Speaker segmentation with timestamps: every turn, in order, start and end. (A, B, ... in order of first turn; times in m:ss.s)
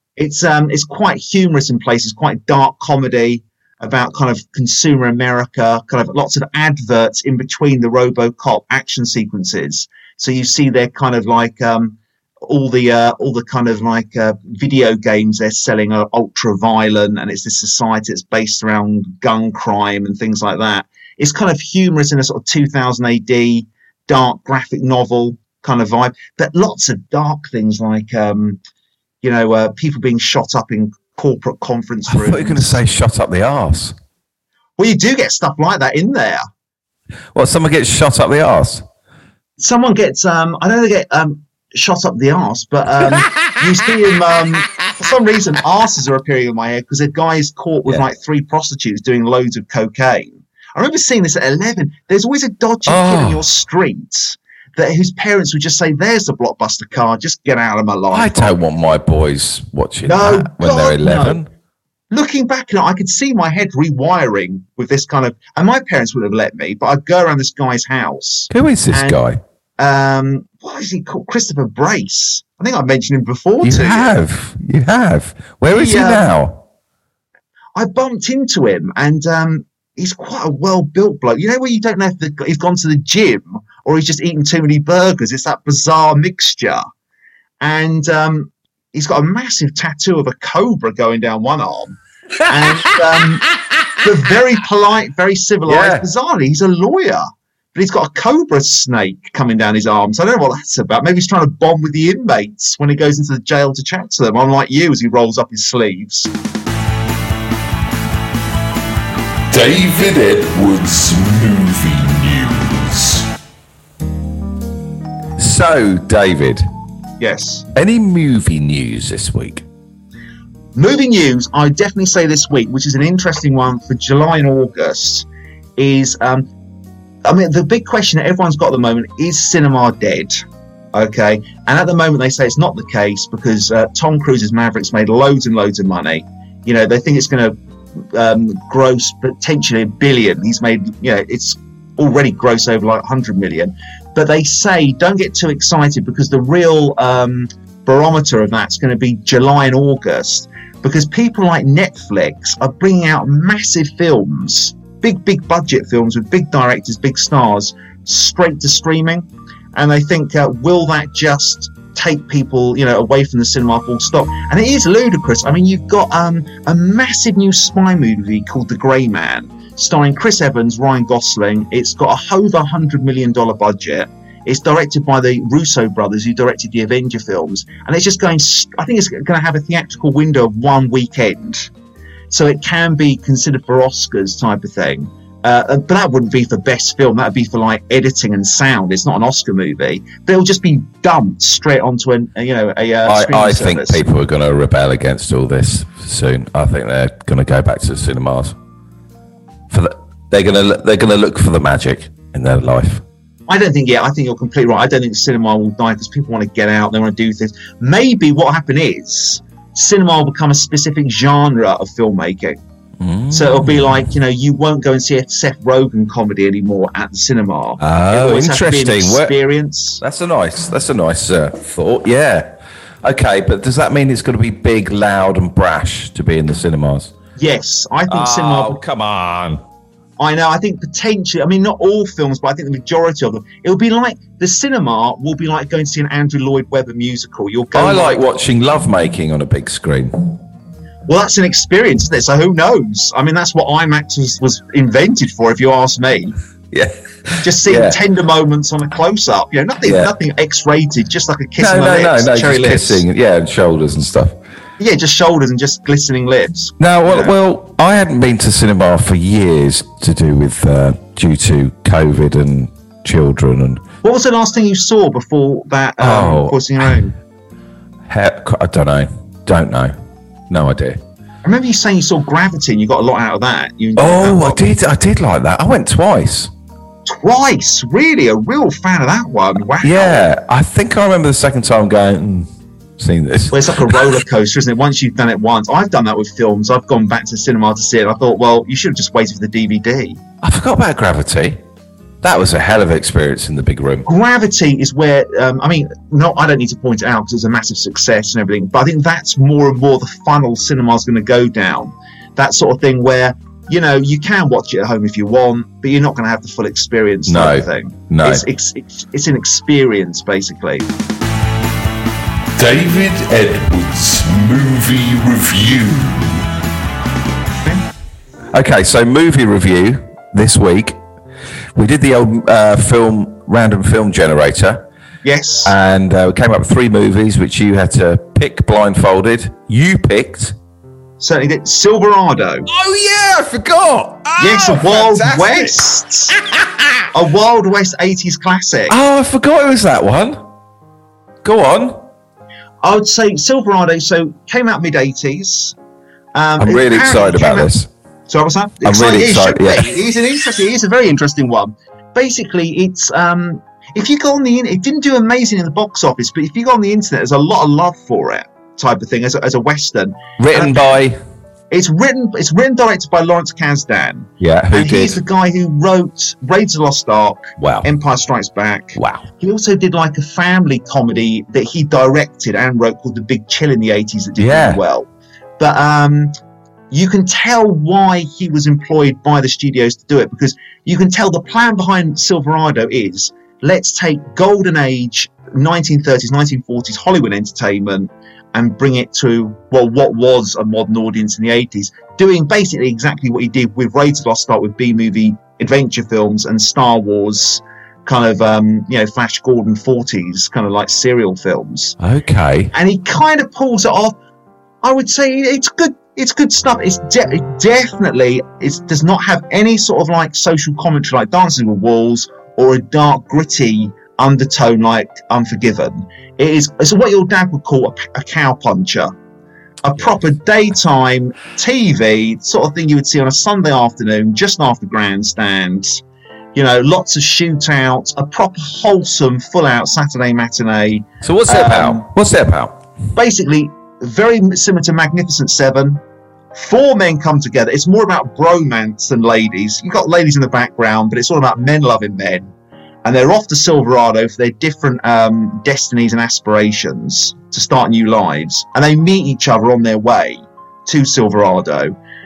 0:00.2-0:28.6 A
0:29.2-0:32.8 A
0:32.1-0:34.0 B
0:34.8-0:36.4 A
0:37.3-0:38.8 B
0:39.6-0:58.6 A
0:43.0-0:44.0 B
0:52.9-0:53.4 B
0:58.1-1:01.5 B
1:00.1-1:01.4 A
1:02.1-1:09.2 A
1:08.5-1:09.4 B
1:09.8-1:14.1 A
1:13.6-1:16.6 B
1:15.7-1:16.2 A
1:17.8-1:26.8 A
1:27.6-1:33.5 A
1:32.5-1:33.7 B
1:34.0-1:37.2 A
1:35.7-1:36.0 B
1:37.8-1:46.3 A
1:49.5-1:53.2 C
1:55.4-1:56.6 B
1:57.2-1:57.7 A
1:57.8-1:59.7 B
2:00.8-2:05.3 A
2:05.8-2:06.5 A
2:07.2-3:01.7 A
3:02.3-3:14.0 A
3:13.0-3:18.6 B
3:19.7-3:23.0 B
3:23.5-3:32.6 A
3:33.0-3:34.0 B
3:33.3-3:40.0 A
3:37.8-3:39.3 B
3:40.0-3:47.1 B
3:47.4-3:48.8 A
3:48.1-3:49.6 B
3:50.2-3:58.2 A
3:57.7-4:00.2 B
4:01.1-4:06.4 A
4:06.7-4:08.0 B
4:07.4-4:13.0 A
4:09.8-4:10.1 B
4:11.6-4:14.4 B
4:14.8-4:17.3 A
4:16.8-4:23.8 B
4:24.0-4:27.1 A
4:26.0-4:27.0 B
4:28.1-4:29.9 B
4:30.5-4:31.0 B
4:31.4-4:34.7 A
4:34.0-4:36.5 B
4:37.1-4:40.3 A
4:39.8-4:44.2 B
4:43.5-4:50.2 A
4:50.4-4:51.6 B
4:52.2-4:54.1 B
4:54.1-5:10.9 A
5:07.3-5:08.4 B
5:12.6-5:16.4 C
5:18.5-5:21.0 B
5:21.8-5:24.8 B
5:25.2-5:25.7 A
5:25.6-5:30.6 B
5:31.2-5:32.7 A
5:32.7-5:35.8 B
5:34.4-5:36.3 A
5:36.3-5:37.0 B
5:37.1-5:39.0 A
5:38.9-5:40.4 B
5:41.4-5:42.0 B
5:42.8-5:45.8 A
5:46.3-5:47.7 A
5:46.6-5:47.9 B
5:48.3-6:01.0 A
5:48.8-5:50.0 B
6:00.4-6:01.2 B
6:01.7-6:16.3 A
6:04.4-6:05.2 B
6:07.6-6:07.9 B
6:09.0-6:09.2 B
6:14.4-6:14.8 B
6:16.9-6:42.0 A
6:42.0-6:42.7 B
6:42.7-6:44.2 A
6:44.8-6:59.1 A
6:59.8-7:06.0 A
7:06.6-7:12.1 A
7:11.2-7:12.8 B
7:13.2-7:16.0 A
7:16.5-7:22.5 A
7:23.0-7:32.0 A